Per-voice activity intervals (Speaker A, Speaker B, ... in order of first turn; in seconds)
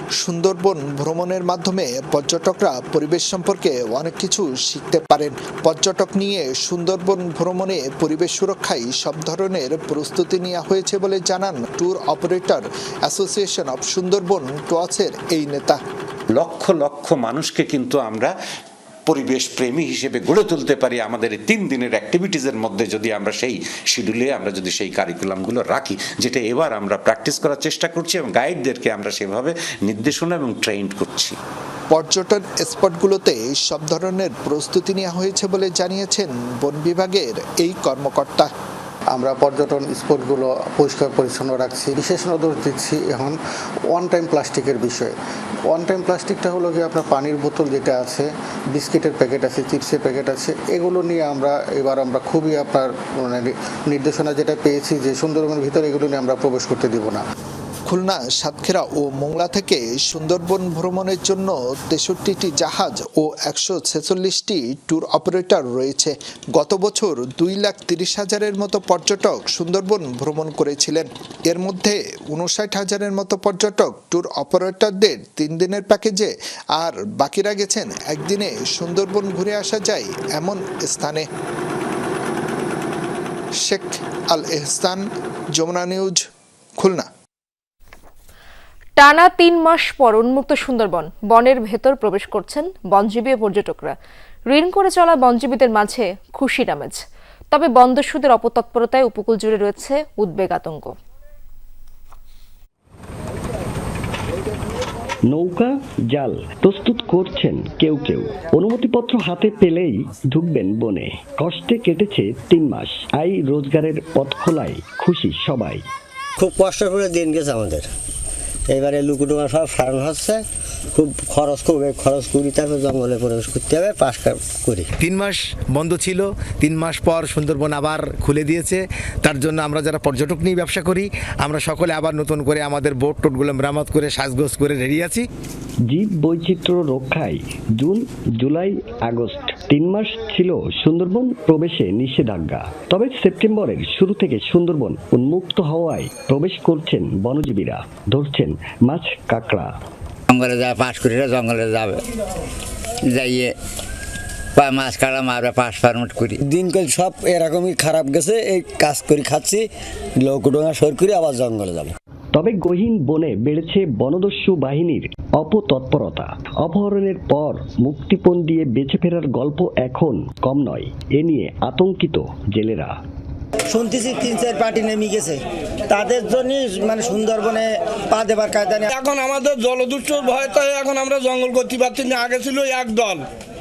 Speaker A: 0.2-15.8, 31.9-38.5, 57.9-81.2, 83.6-85.0, 85.5-86.2, 86.8-87.1
Speaker B: 16.3-18.3, 19.1-31.4
Speaker C: 39.1-43.4, 43.9-45.1, 45.7-57.2
Speaker D: 89.0-93.9, 94.5-100.9
Speaker E: 105.3-115.8, 135.9-149.7, 162.3-173.0
Speaker F: 116.4-117.9, 118.7-124.9, 150.3-152.0, 153.1-153.5, 154.6-159.7, 160.2-161.9, 173.7-175.4, 175.9-178.9
Speaker G: 125.1-128.7, 129.3-135.2
Speaker H: 178.9-183.2